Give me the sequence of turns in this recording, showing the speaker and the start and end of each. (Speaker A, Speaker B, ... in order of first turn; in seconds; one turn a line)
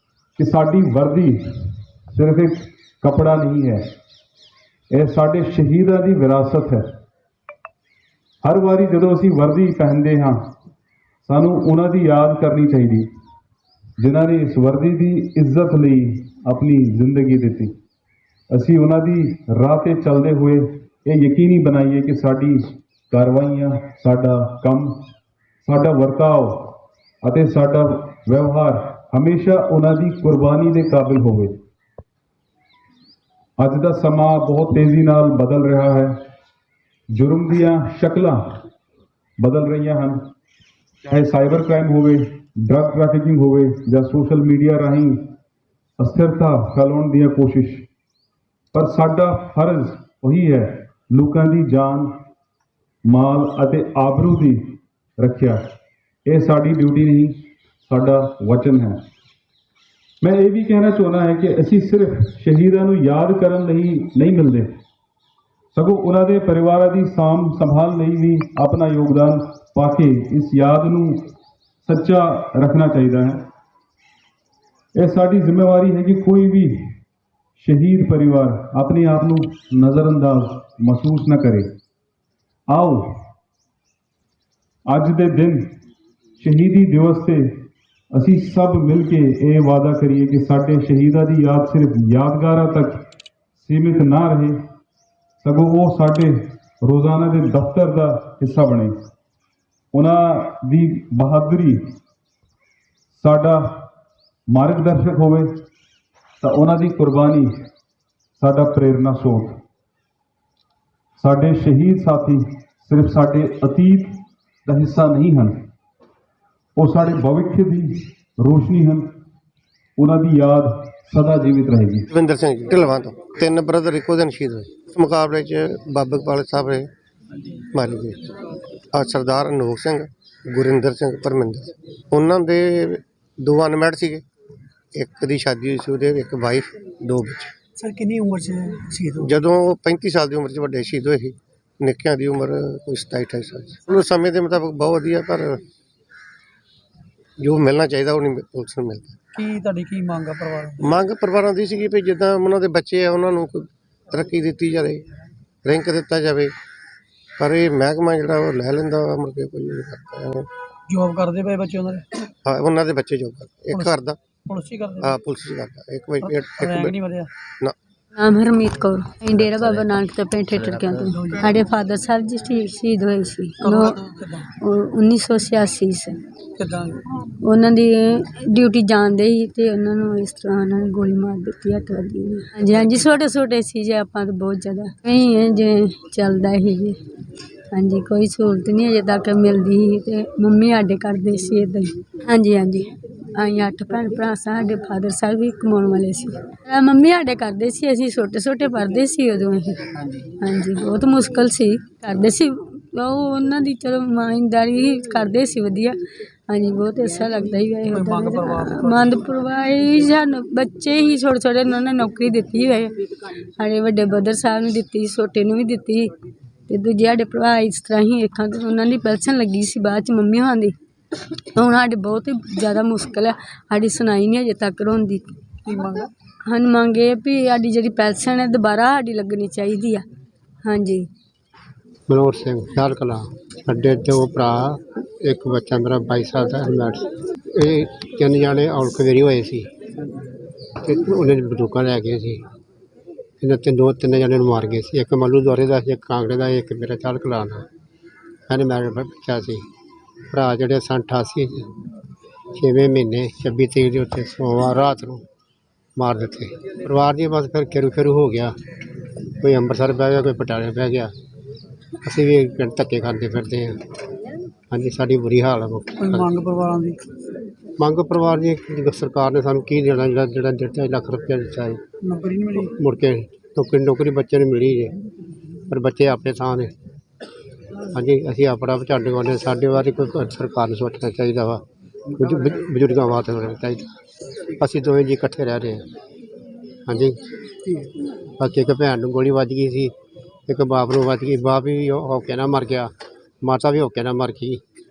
Speaker A: 0.4-3.9
Speaker A: 4.9-6.8
Speaker A: 8.4-10.4
Speaker A: 11.2-13.1
Speaker A: 14.0-17.7
Speaker A: 18.5-24.9
Speaker A: 25.6-31.6
Speaker A: 33.6-36.1
Speaker A: 37.1-38.6
Speaker A: 39.4-40.2
Speaker A: 41.0-45.2
Speaker A: 46.0-47.9
Speaker A: 48.7-52.1
Speaker A: 53.1-55.6
Speaker A: 56.3-59.0
Speaker A: 60.2-64.7
Speaker A: 65.7-71.3
Speaker A: 71.8-73.4
Speaker A: 75.0-76.9
Speaker A: 77.6-81.7
Speaker A: 82.7-83.3
Speaker A: 84.9-85.8
Speaker A: 86.4-93.0
Speaker A: 93.6-94.6
Speaker A: 95.4-98.9
Speaker A: 99.9-101.9
Speaker A: 103.2-103.9
Speaker A: 104.5-105.5
Speaker A: 106.4-107.5
Speaker A: 108.4-109.6
Speaker A: 111.2-115.5
Speaker A: 116.8-119.1
Speaker A: 120.0-122.1
Speaker B: 122.1-126.9
Speaker B: 127.7-128.2
Speaker B: 128.9-134.2
Speaker B: 134.9-137.5
Speaker C: 137.8-139.3
Speaker B: 139.2-145.6
Speaker B: 147.4-149.1
Speaker C: 149.3-150.8
Speaker B: 150.8-155.0
Speaker B: 155.6-156.5
Speaker B: 157.4-160.5
Speaker C: 160.9-162.1
Speaker B: 162.4-164.2
Speaker C: 164.5-165.1
Speaker B: 165.0-167.0
Speaker C: 166.2-167.3
Speaker D: 168.1-176.2
Speaker B: 169.3-169.9
Speaker B: 170.5-171.1
Speaker C: 171.2-171.4
Speaker C: 173.6-174.4
Speaker C: 176.6-177.0
Speaker D: 177.2-187.0
Speaker D: 187.7-205.9
Speaker D: 206.5-213.1
Speaker C: 207.9-209.1
Speaker D: 213.6-216.1
Speaker D: 216.7-220.7
Speaker D: 221.5-225.4
Speaker C: 225.7-226.1
Speaker D: 226.4-230.0
Speaker D: 230.6-231.1
Speaker E: 232.1-239.7
Speaker E: 240.8-242.4
Speaker E: 243.4-247.6
Speaker E: 248.5-249.6
Speaker E: 250.3-251.6
Speaker E: 252.5-255.2
Speaker E: 256.0-258.5
Speaker E: 259.4-261.1
Speaker E: 262.0-263.8
Speaker E: 264.7-266.4
Speaker C: 266.0-267.0
Speaker E: 267.8-271.8
Speaker C: 272.0-272.7
Speaker E: 272.7-275.0
Speaker E: 275.7-276.7
Speaker E: 277.9-281.6
Speaker E: 282.1-283.9
Speaker E: 284.6-285.8
Speaker E: 286.9-287.2
Speaker E: 288.4-289.9
Speaker E: 290.5-294.6